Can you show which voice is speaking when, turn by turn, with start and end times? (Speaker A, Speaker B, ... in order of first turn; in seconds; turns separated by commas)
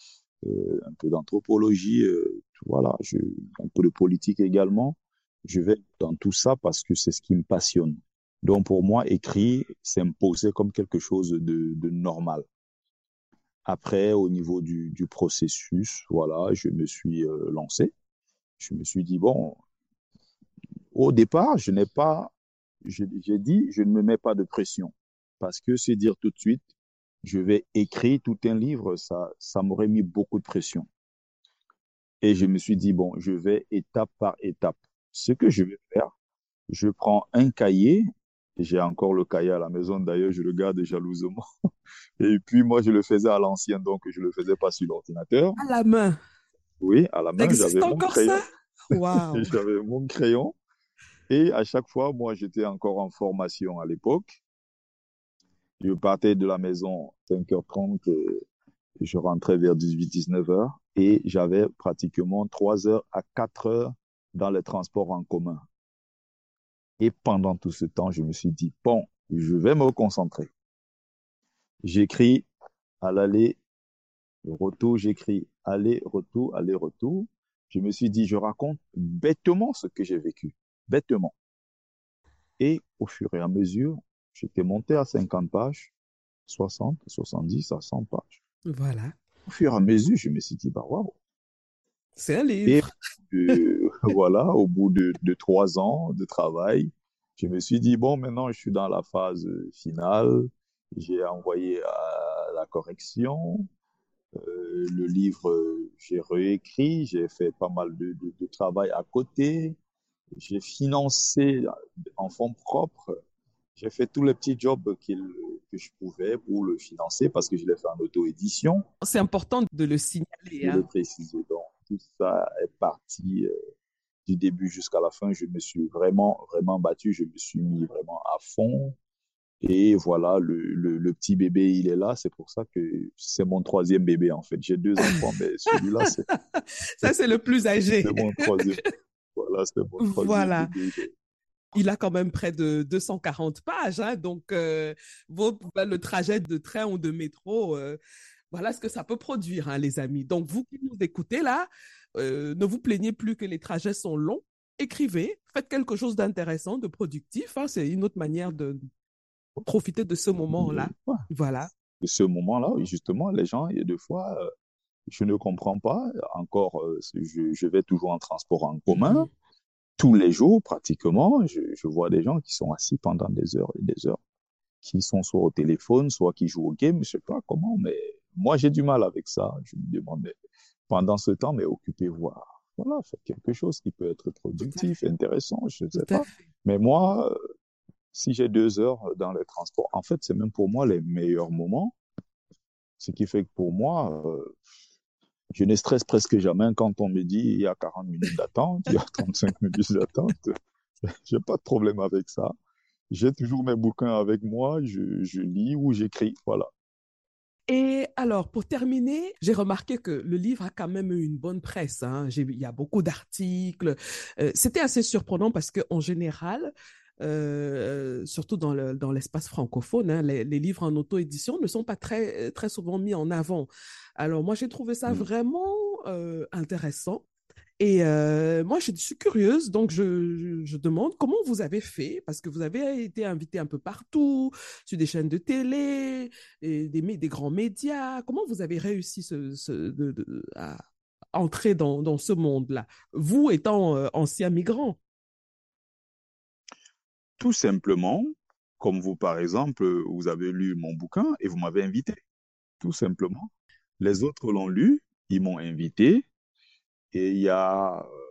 Speaker A: 0.4-12.5, Speaker A: 13.7-17.9, Speaker A: 18.6-19.6, Speaker A: 20.9-22.3, Speaker A: 22.8-26.6, Speaker A: 27.2-30.9, Speaker A: 32.2-36.1, Speaker A: 36.7-38.0, Speaker A: 38.6-41.4, Speaker A: 42.2-45.6, Speaker B: 45.6-46.2, Speaker A: 46.8-48.4, Speaker B: 47.4-49.5, Speaker A: 49.1-50.6, Speaker A: 51.3-54.4, Speaker A: 55.8-58.4, Speaker A: 59.0-65.6, Speaker A: 67.0-70.5, Speaker A: 71.8-72.5, Speaker A: 73.0-73.6, Speaker A: 74.4-81.3, Speaker A: 82.6-85.9, Speaker A: 86.5-88.4, Speaker B: 88.7-89.2, Speaker A: 89.5-91.2, Speaker B: 92.2-92.9, Speaker A: 92.7-103.7, Speaker A: 104.4-109.8, Speaker A: 110.4-113.1, Speaker A: 113.8-118.8, Speaker B: 119.0-120.9, Speaker A: 120.6-123.5, Speaker A: 124.3-128.9, Speaker A: 129.6-136.2, Speaker B: 136.3-138.2, Speaker A: 138.0-138.8, Speaker A: 139.3-141.1, Speaker B: 140.0-140.7, Speaker B: 141.7-148.0, Speaker B: 148.5-158.8, Speaker B: 159.6-161.7, Speaker A: 160.5-161.2, Speaker A: 162.0-164.5, Speaker A: 165.1-169.3, Speaker B: 168.9-169.3, Speaker A: 170.0-174.2, Speaker A: 174.8-180.3, Speaker A: 180.9-187.3, Speaker B: 184.6-184.9, Speaker B: 185.9-186.3, Speaker A: 188.1-191.9, Speaker A: 193.0-194.6, Speaker A: 195.5-200.6, Speaker A: 201.2-202.5, Speaker A: 203.1-206.7, Speaker B: 207.7-227.3, Speaker B: 227.8-240.8, Speaker B: 241.3-245.0, Speaker A: 247.4-248.3, Speaker A: 248.8-252.2, Speaker A: 252.8-256.2, Speaker A: 257.1-258.1